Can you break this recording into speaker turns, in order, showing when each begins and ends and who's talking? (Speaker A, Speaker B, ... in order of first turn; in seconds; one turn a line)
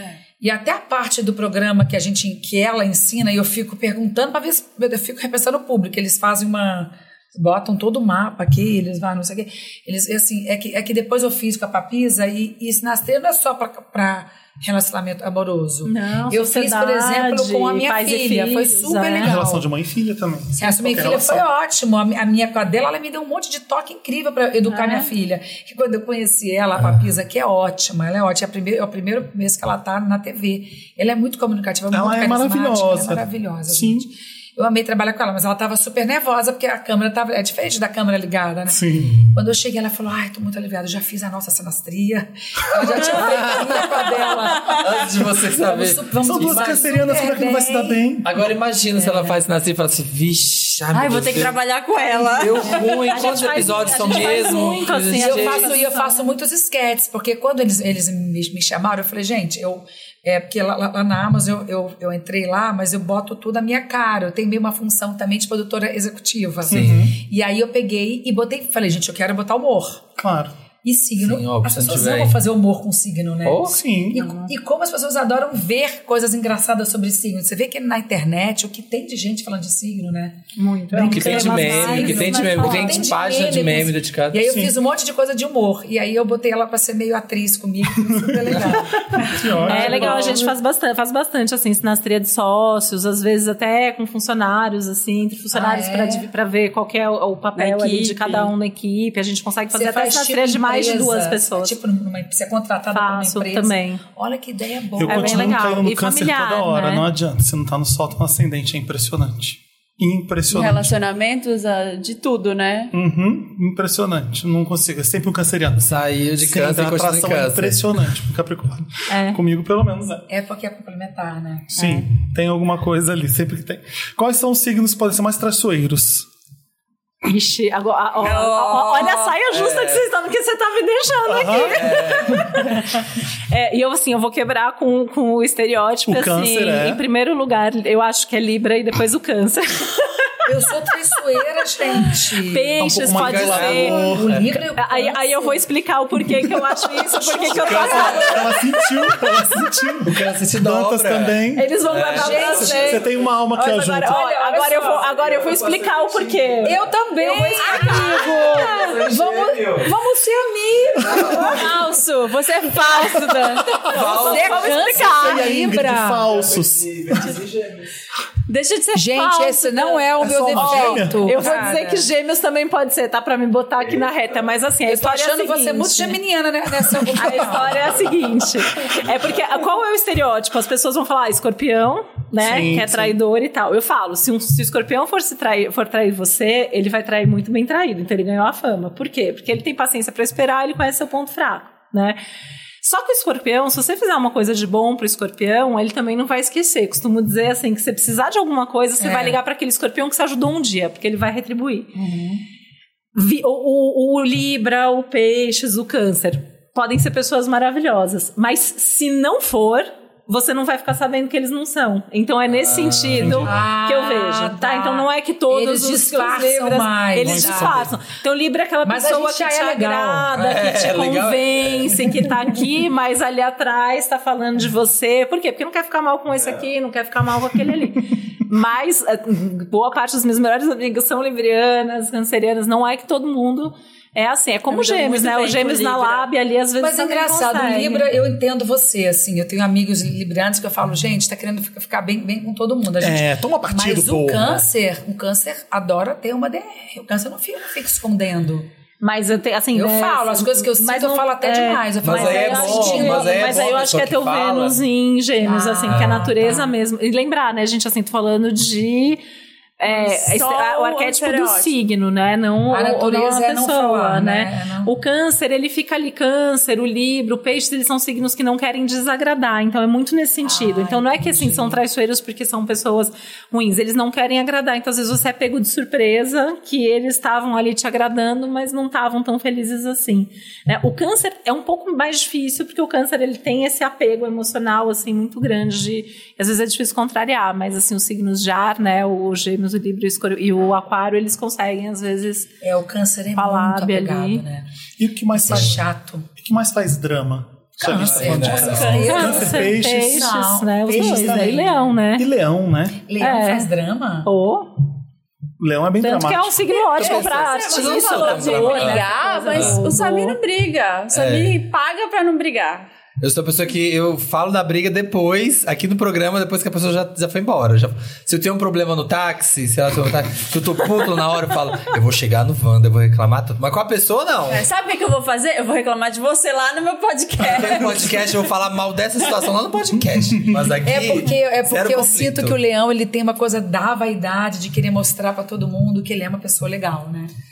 Speaker A: 0.4-19.7
Speaker B: 15.8-19.4
Speaker C: 19.2-21.4
Speaker A: 20.6-48.0
Speaker B: 24.7-25.1
Speaker D: 26.8-27.0
Speaker C: 31.9-34.0
Speaker C: 38.7-39.1
Speaker D: 39.0-39.3
Speaker D: 43.0-44.0
Speaker E: 44.5-44.8
Speaker D: 44.7-46.5
Speaker C: 46.2-48.3
Speaker D: 48.2-55.8
Speaker A: 49.0-49.4
Speaker E: 50.9-54.8
Speaker B: 52.7-56.3
Speaker A: 55.1-70.0
Speaker C: 66.7-67.2
Speaker D: 66.7-67.1
Speaker C: 70.2-70.5
Speaker A: 70.8-90.4
Speaker D: 71.2-72.4
Speaker D: 73.4-73.8
Speaker C: 73.6-74.3
Speaker B: 74.2-74.5
Speaker B: 80.5-83.2
Speaker D: 81.0-84.4
Speaker C: 89.1-90.5
Speaker B: 89.6-101.8
Speaker A: 95.5-96.3
Speaker E: 97.5-98.5
Speaker A: 99.7-105.6
Speaker B: 102.9-104.0
Speaker C: 105.0-110.9
Speaker B: 105.0-107.1
Speaker E: 110.5-112.9
Speaker C: 112.9-120.2
Speaker D: 115.8-118.0
Speaker B: 119.1-119.4
Speaker A: 120.3-122.0
Speaker C: 121.7-126.3
Speaker B: 127.2-140.1
Speaker E: 128.2-129.4
Speaker D: 129.5-130.1
Speaker C: 131.2-132.6
Speaker D: 131.7-132.6
Speaker C: 136.1-137.0
Speaker A: 140.4-142.8
Speaker B: 142.4-144.1
Speaker C: 142.8-144.3
Speaker D: 143.1-144.5
Speaker A: 143.9-145.6
Speaker B: 144.8-149.4
Speaker A: 147.1-148.6
Speaker D: 147.4-148.3
Speaker C: 147.7-151.7
Speaker A: 149.4-149.8
Speaker D: 150.0-153.1
Speaker B: 151.5-156.8
Speaker A: 152.1-155.1
Speaker C: 152.8-154.2
Speaker D: 155.0-156.8
Speaker A: 156.6-161.8
Speaker E: 157.2-159.0
Speaker B: 157.6-158.1
Speaker D: 157.9-159.9
Speaker D: 161.1-161.6
Speaker E: 161.2-164.6
Speaker B: 162.9-165.6
Speaker C: 163.0-163.4
Speaker D: 163.8-164.8
Speaker A: 164.1-166.3
Speaker C: 165.1-167.4
Speaker D: 166.4-167.9
Speaker E: 168.5-170.9
Speaker A: 168.9-172.1
Speaker C: 170.2-171.4
Speaker B: 170.5-176.2
Speaker A: 174.9-178.1
Speaker B: 177.0-192.2
Speaker C: 182.4-183.1
Speaker B: 192.8-201.9
Speaker A: 199.0-199.4
Speaker A: 201.9-202.4
Speaker B: 203.1-238.1
Speaker D: 212.5-213.6
Speaker C: 213.2-213.5
Speaker A: 213.5-217.8
Speaker C: 217.2-217.9
Speaker A: 218.8-220.3
Speaker D: 220.3-222.1
Speaker E: 234.7-236.3
Speaker A: 236.8-248.7
Speaker C: 243.0-244.6
Speaker B: 249.0-259.2
Speaker A: 249.7-253.7
Speaker D: 252.0-254.8
Speaker A: 255.4-256.7
Speaker D: 255.9-256.3
Speaker B: 259.8-292.5
Speaker E: 259.9-261.7
Speaker A: 262.7-264.9
Speaker A: 270.4-271.8
Speaker A: 292.6-294.7
Speaker B: 293.3-294.4
Speaker C: 295.0-300.3
Speaker A: 295.3-296.3
Speaker D: 295.5-295.8
Speaker A: 297.8-301.9
Speaker D: 297.8-299.2
Speaker E: 298.8-299.4
Speaker B: 298.9-302.3
Speaker C: 301.0-301.5
Speaker C: 302.1-303.0
Speaker A: 303.0-304.3
Speaker B: 303.2-303.7
Speaker B: 304.2-304.7
Speaker C: 305.6-306.6
Speaker B: 306.0-310.4
Speaker E: 306.7-312.9
Speaker D: 306.9-309.8
Speaker D: 311.1-311.6
Speaker D: 313.2-324.7
Speaker E: 324.5-328.4
Speaker D: 327.4-332.6
Speaker A: 330.8-337.3